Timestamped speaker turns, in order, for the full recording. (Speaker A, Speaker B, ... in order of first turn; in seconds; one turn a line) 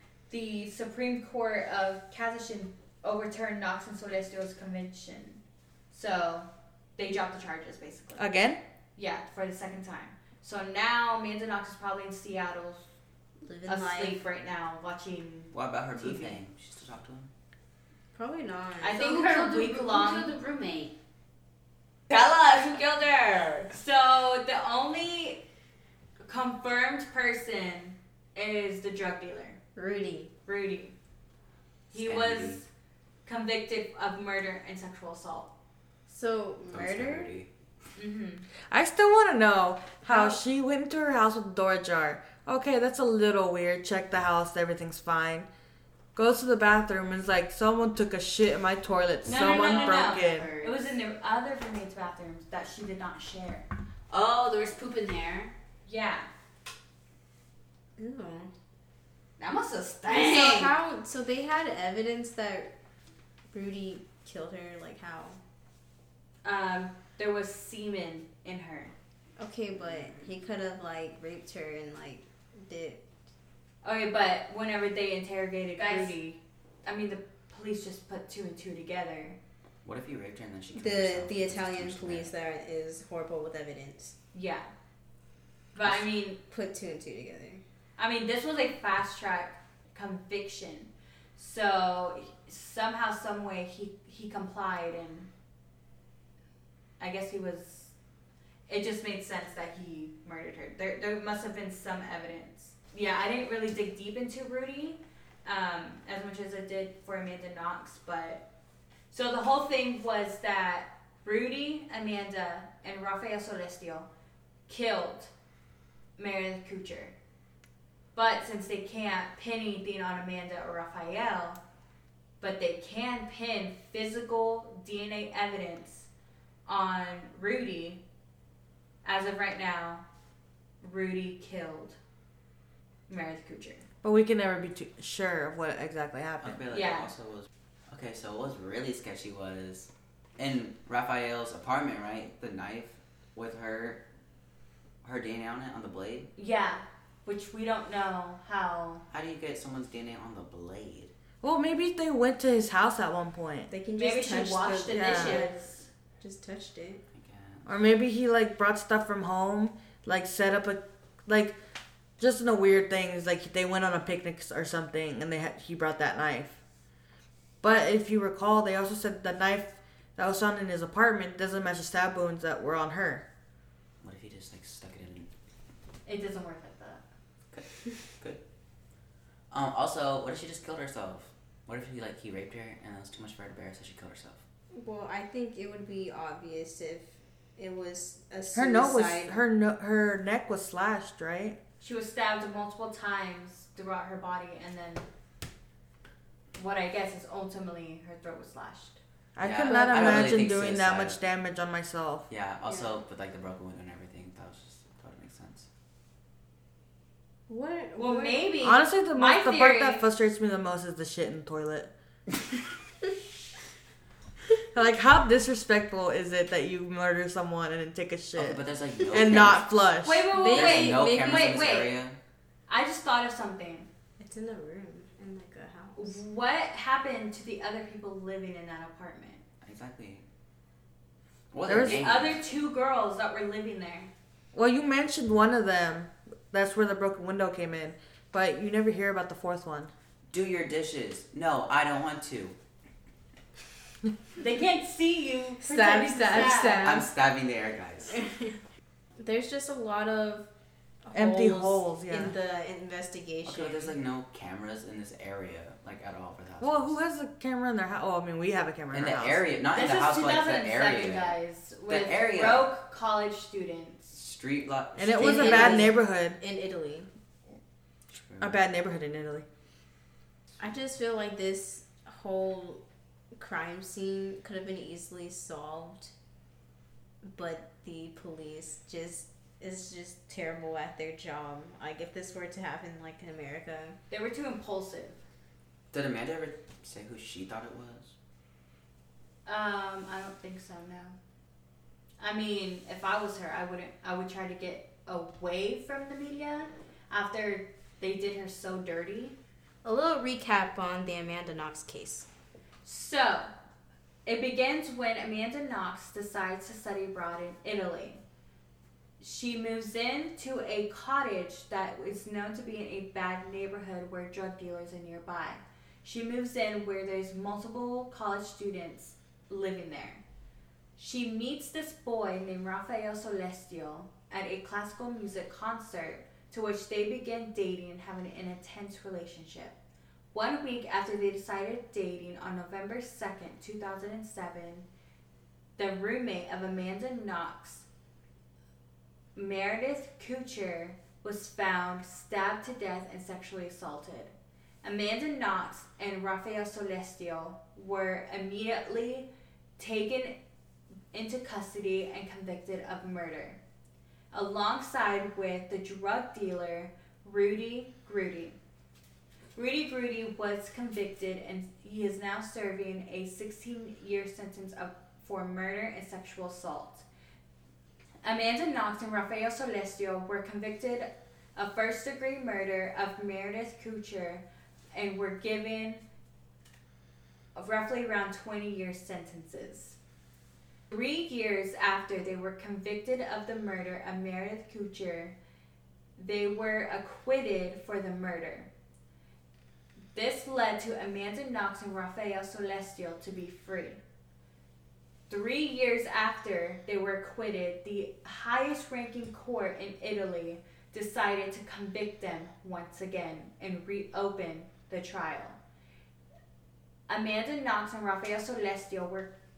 Speaker A: 0.3-8.4
Speaker B: 8.2-8.6
Speaker A: 8.9-12.9
Speaker C: 13.4-14.2
Speaker A: 13.7-16.4
Speaker D: 15.5-17.3
Speaker C: 18.1-19.0
Speaker A: 18.8-20.3
Speaker E: 18.9-20.9
Speaker E: 22.1-23.7
Speaker A: 23.7-25.4
Speaker A: 26.2-29.6
Speaker C: 29.8-30.3
Speaker A: 30.4-30.9
Speaker A: 31.9-32.7
Speaker D: 31.9-32.6
Speaker A: 33.2-35.5
Speaker C: 36.1-37.3
Speaker D: 36.7-37.5
Speaker A: 37.9-38.5
Speaker B: 38.7-45.5
Speaker A: 40.0-40.4
Speaker B: 46.1-50.5
Speaker A: 49.2-53.7
Speaker E: 49.2-50.9
Speaker E: 54.1-55.5
Speaker A: 55.9-56.3
Speaker C: 58.0-58.5
Speaker E: 59.4-60.7
Speaker C: 60.1-62.7
Speaker C: 63.5-65.4
Speaker A: 66.4-68.9
Speaker C: 69.4-73.0
Speaker A: 73.8-79.4
Speaker E: 75.8-76.2
Speaker D: 79.8-82.3
Speaker C: 80.7-84.2
Speaker A: 84.3-84.7
Speaker A: 85.7-86.4
Speaker C: 86.4-87.6
Speaker A: 88.0-95.3
Speaker A: 97.0-97.9
Speaker A: 98.7-108.4
Speaker A: 109.1-114.1
Speaker A: 114.7-115.3
Speaker A: 116.2-117.1
Speaker A: 118.1-121.6
Speaker A: 122.4-126.1
Speaker A: 126.7-128.0
Speaker A: 129.0-130.0
Speaker A: 130.8-132.0
Speaker A: 133.1-133.8
Speaker B: 134.0-136.6
Speaker D: 136.4-144.0
Speaker A: 136.7-137.1
Speaker D: 145.0-146.3
Speaker A: 146.3-149.1
Speaker D: 149.1-151.1
Speaker B: 151.4-153.7
Speaker C: 153.7-155.5
Speaker A: 154.0-155.9
Speaker B: 154.9-155.5
Speaker C: 156.2-157.0
Speaker D: 157.1-157.7
Speaker B: 157.7-161.6
Speaker B: 162.2-166.6
Speaker B: 167.6-173.2
Speaker D: 174.0-175.3
Speaker A: 176.1-177.0
Speaker D: 177.5-178.4
Speaker D: 179.5-184.4
Speaker C: 184.7-189.4
Speaker B: 188.5-191.6
Speaker A: 191.8-195.1
Speaker A: 196.5-199.0
Speaker B: 199.3-202.3
Speaker D: 199.4-201.2
Speaker C: 199.7-200.4
Speaker D: 202.3-205.7
Speaker A: 202.7-202.9
Speaker C: 207.5-208.6
Speaker A: 207.9-210.1
Speaker B: 208.6-211.9
Speaker B: 214.7-220.2
Speaker D: 218.3-219.9
Speaker A: 220.0-222.0
Speaker C: 220.3-221.8
Speaker D: 220.5-222.2
Speaker A: 222.7-223.9
Speaker C: 224.2-226.2
Speaker A: 225.9-229.4
Speaker D: 229.6-230.2
Speaker D: 231.5-232.4
Speaker B: 231.7-232.0
Speaker A: 231.7-234.1
Speaker B: 234.5-239.9
Speaker D: 240.3-242.6
Speaker A: 244.4-247.1
Speaker C: 245.6-247.1
Speaker D: 246.8-248.2
Speaker C: 248.1-248.6
Speaker C: 249.2-250.5
Speaker C: 251.0-253.9
Speaker B: 251.1-252.3
Speaker D: 253.4-257.0
Speaker B: 256.6-259.4
Speaker D: 258.9-261.4
Speaker A: 259.7-264.1
Speaker D: 261.9-262.7
Speaker D: 264.1-265.8
Speaker B: 264.9-266.4
Speaker C: 265.1-267.1
Speaker A: 265.4-265.8
Speaker D: 268.1-268.6
Speaker B: 268.4-269.4
Speaker C: 270.6-272.8
Speaker C: 273.3-276.1
Speaker C: 277.2-284.0
Speaker A: 284.1-285.2
Speaker D: 285.9-288.1
Speaker A: 289.4-291.1
Speaker A: 292.2-299.4
Speaker C: 299.8-302.3
Speaker A: 302.8-303.5
Speaker A: 304.2-308.2
Speaker A: 309.2-320.2
Speaker A: 321.0-329.8
Speaker A: 330.3-334.9
Speaker A: 335.8-337.9
Speaker A: 339.3-350.4
Speaker A: 351.1-353.6
Speaker A: 354.3-358.6
Speaker A: 359.5-367.1
Speaker A: 368.2-376.0
Speaker A: 377.5-380.0
Speaker A: 380.9-385.4
Speaker A: 386.2-388.7
Speaker A: 390.1-394.0
Speaker A: 395.3-405.6
Speaker A: 407.1-409.3